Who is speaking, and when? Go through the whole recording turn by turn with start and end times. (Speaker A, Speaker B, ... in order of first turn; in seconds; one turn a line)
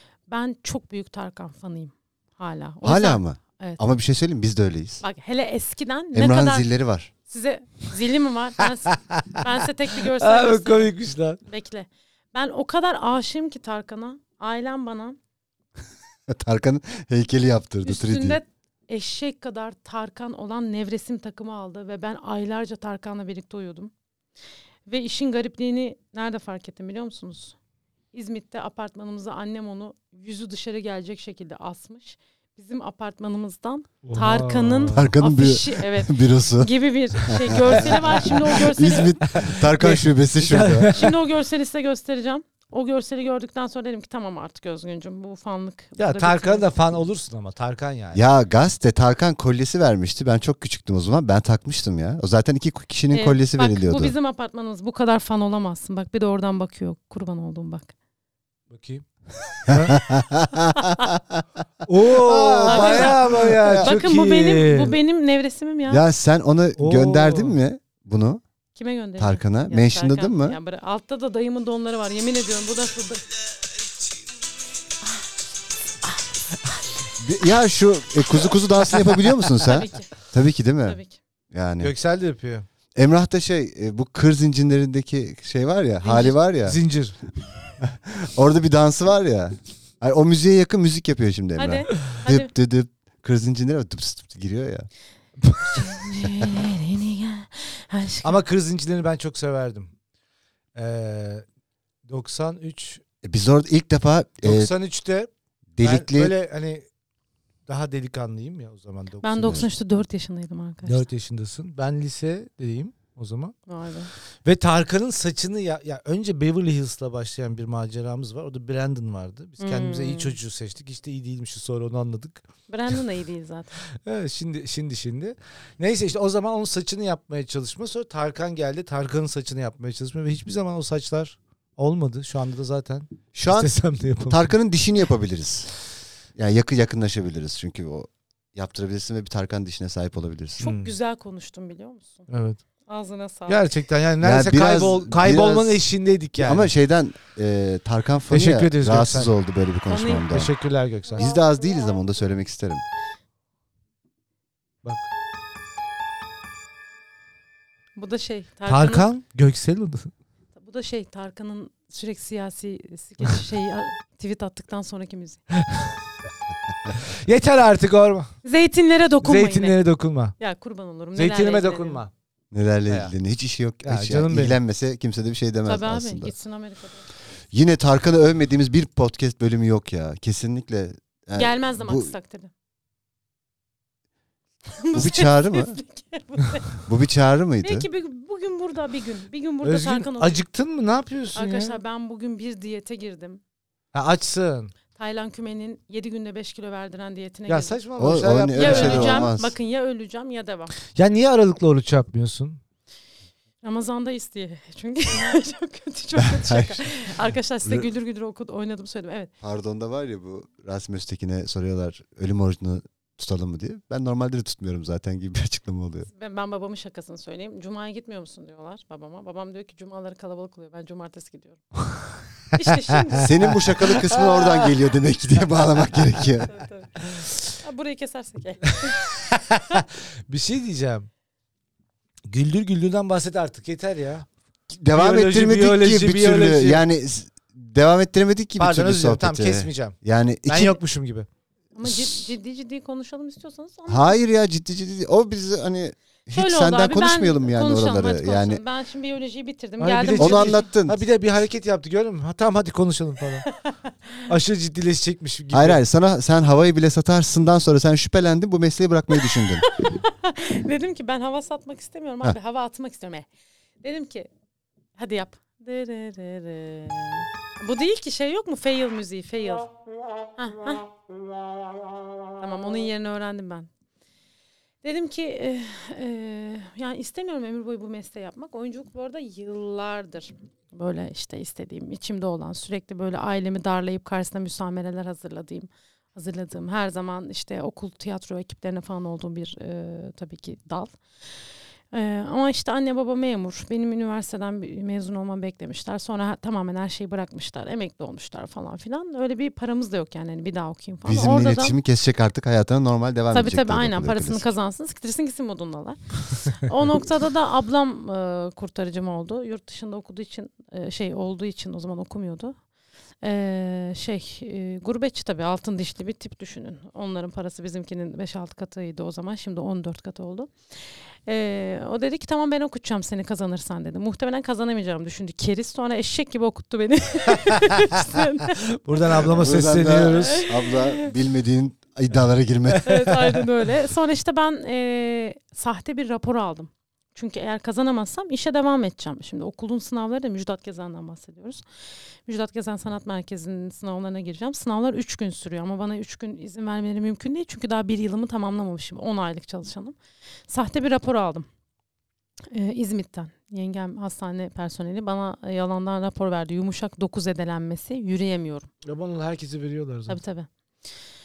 Speaker A: 0.3-3.8
Speaker B: 2.8-5.0
Speaker A: 5.0-6.7
Speaker B: 6.1-7.1
Speaker A: 7.2-10.9
Speaker C: 8.9-9.2
Speaker C: 10.0-11.4
Speaker A: 11.4-15.2
Speaker B: 16.3-18.4
Speaker A: 17.8-23.9
Speaker A: 24.9-27.6
Speaker A: 28.1-39.2
Speaker C: 34.0-35.1
Speaker B: 34.9-41.1
Speaker C: 39.2-41.2
Speaker A: 40.9-46.7
Speaker C: 46.0-48.2
Speaker B: 48.1-54.1
Speaker A: 53.1-57.9
Speaker C: 58.7-60.0
Speaker B: 59.7-61.4
Speaker A: 60.8-61.1
Speaker C: 61.9-65.0
Speaker B: 62.0-64.0
Speaker A: 62.6-63.2
Speaker A: 63.8-66.0
Speaker B: 65.9-68.4
Speaker C: 66.8-67.5
Speaker A: 68.7-73.2
Speaker B: 69.2-70.6
Speaker B: 77.2-81.0
Speaker C: 78.9-79.3
Speaker A: 79.6-80.1
Speaker A: 80.8-81.2
Speaker B: 81.5-81.9
Speaker C: 81.8-82.7
Speaker B: 82.9-86.8
Speaker A: 86.0-86.3
Speaker C: 86.6-87.2
Speaker B: 87.8-94.9
Speaker A: 91.6-92.5
Speaker C: 95.4-96.4
Speaker A: 95.7-98.4
Speaker C: 98.2-99.9
Speaker C: 100.7-101.4
Speaker C: 102.1-103.0
Speaker B: 103.2-104.7
Speaker C: 104.4-106.8
Speaker B: 105.8-106.3
Speaker C: 107.7-109.7
Speaker A: 109.2-111.0
Speaker C: 110.8-113.5
Speaker A: 113.7-114.1
Speaker C: 114.4-122.4
Speaker A: 119.6-120.3
Speaker A: 122.7-123.8
Speaker C: 124.0-134.5
Speaker B: 133.3-133.8
Speaker B: 134.3-135.7
Speaker B: 136.3-140.6
Speaker A: 140.6-142.3
Speaker C: 140.6-140.9
Speaker C: 142.3-142.6
Speaker A: 142.9-143.6
Speaker C: 143.5-146.7
Speaker B: 144.2-145.8
Speaker B: 146.4-150.5
Speaker C: 148.3-149.3
Speaker A: 149.9-150.2
Speaker C: 150.3-151.2
Speaker B: 151.1-152.8
Speaker A: 157.9-159.1
Speaker C: 158.7-160.1
Speaker A: 160.6-165.4
Speaker C: 165.5-165.9
Speaker C: 167.0-168.3
Speaker A: 168.4-169.8
Speaker C: 169.2-170.3
Speaker A: 170.4-172.0
Speaker C: 171.1-172.1
Speaker B: 172.5-176.3
Speaker C: 173.8-174.6
Speaker A: 175.7-177.1
Speaker B: 177.5-182.1
Speaker A: 181.3-182.5
Speaker A: 184.7-186.8
Speaker B: 184.9-185.8
Speaker B: 186.8-187.9
Speaker A: 187.6-190.4
Speaker C: 189.6-191.8
Speaker A: 191.3-193.4
Speaker C: 193.9-194.7
Speaker A: 194.9-197.8
Speaker C: 197.5-199.3
Speaker B: 198.0-199.5
Speaker A: 198.5-200.7
Speaker C: 200.9-202.6
Speaker A: 203.6-209.3
Speaker B: 206.2-206.8
Speaker B: 209.4-216.1
Speaker A: 216.1-221.7
Speaker A: 222.5-223.3
Speaker B: 223.2-226.5
Speaker A: 226.5-229.8
Speaker C: 229.3-231.1
Speaker C: 232.3-234.3
Speaker B: 234.8-240.8
Speaker C: 234.9-236.8
Speaker C: 238.6-241.3
Speaker A: 241.7-244.2
Speaker B: 243.9-248.6
Speaker A: 246.3-250.7
Speaker C: 249.8-253.5
Speaker B: 250.2-251.0
Speaker C: 254.2-255.8
Speaker B: 255.5-259.6
Speaker A: 259.4-263.3
Speaker A: 263.8-264.3
Speaker A: 265.0-269.7
Speaker A: 270.4-270.9
Speaker A: 272.4-273.7
Speaker A: 274.8-291.0
Speaker A: 291.9-301.8
Speaker B: 301.0-304.5
Speaker A: 303.3-312.5
Speaker A: 313.2-329.4
Speaker C: 328.8-330.5
Speaker B: 329.3-333.0
Speaker A: 330.1-331.1
Speaker C: 332.7-333.4
Speaker A: 332.8-341.6
Speaker A: 342.2-349.9
Speaker A: 350.5-351.5
Speaker A: 352.5-358.7
Speaker C: 358.8-360.2
Speaker A: 360.1-360.5